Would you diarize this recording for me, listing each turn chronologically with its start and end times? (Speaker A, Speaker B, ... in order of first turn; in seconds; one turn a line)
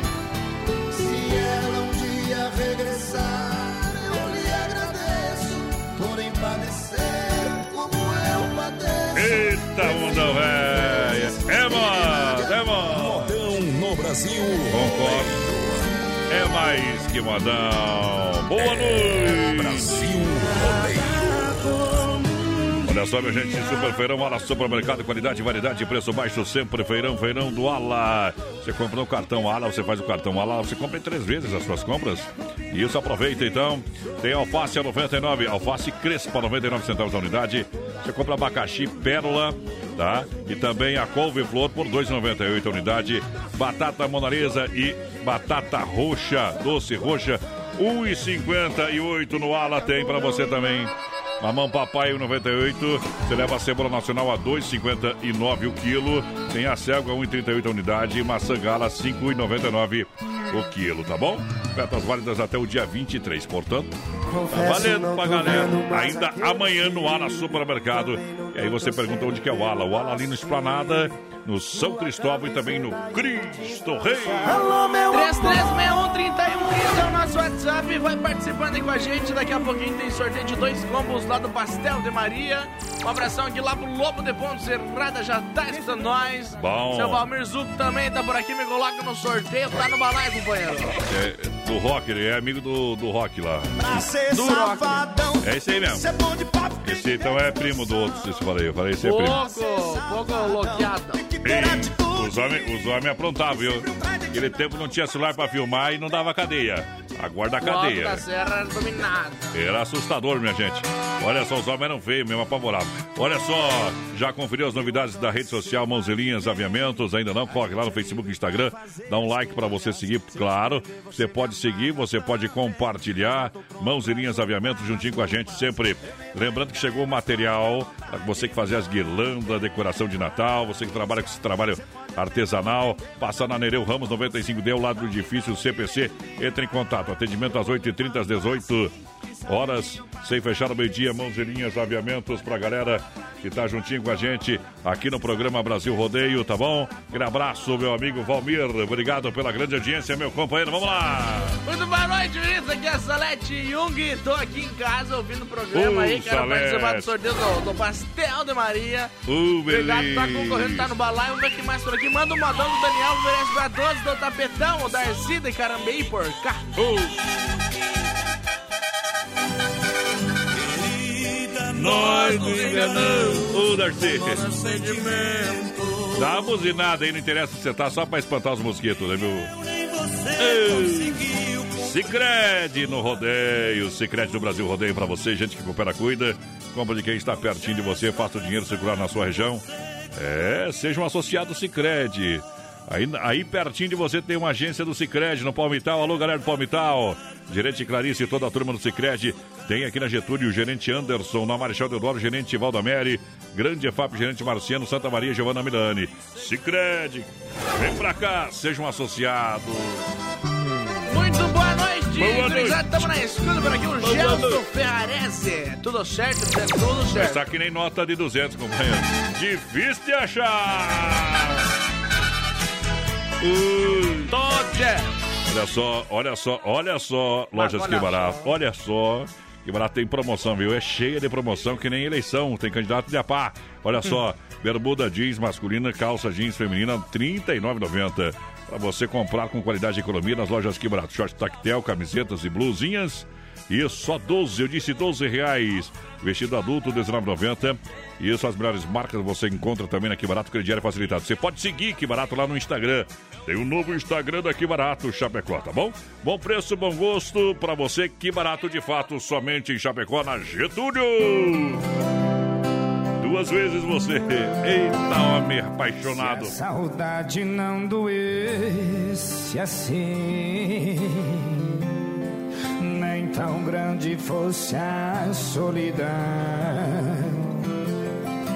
Speaker A: 0.9-12.4
Speaker B: 9.2-13.3
Speaker C: 12.8-15.9
Speaker B: 14.7-15.3
Speaker B: 16.3-19.9
Speaker C: 18.6-22.1
Speaker B: 22.9-63.9
Speaker A: 64.3-66.6
Speaker B: 64.5-74.6
Speaker A: 74.0-75.8
Speaker D: 75.1-91.0
Speaker B: 86.6-87.2
Speaker B: 91.0-93.9
Speaker A: 93.8-98.0
Speaker D: 94.3-94.9
Speaker B: 95.4-96.0
Speaker B: 96.8-99.4
Speaker D: 99.0-101.2
Speaker A: 99.3-102.5
Speaker B: 101.4-108.2
Speaker D: 107.6-109.5
Speaker B: 109.5-138.9
Speaker B: 139.5-151.6
Speaker D: 151.7-159.1
Speaker B: 155.7-157.2
Speaker B: 159.3-160.9
Speaker D: 159.7-166.7
Speaker B: 166.8-167.2
Speaker B: 171.7-174.6
Speaker D: 174.6-175.1
Speaker B: 176.1-179.5
Speaker B: 180.4-210.1
Speaker D: 211.1-217.4
Speaker B: 212.2-213.1
Speaker B: 214.0-214.6
Speaker B: 217.1-221.6
Speaker B: 223.4-224.3
Speaker D: 224.3-225.2
Speaker B: 225.5-261.8
Speaker D: 227.6-228.4
Speaker B: 263.2-266.6
Speaker E: 266.1-271.8
Speaker E: 272.8-277.6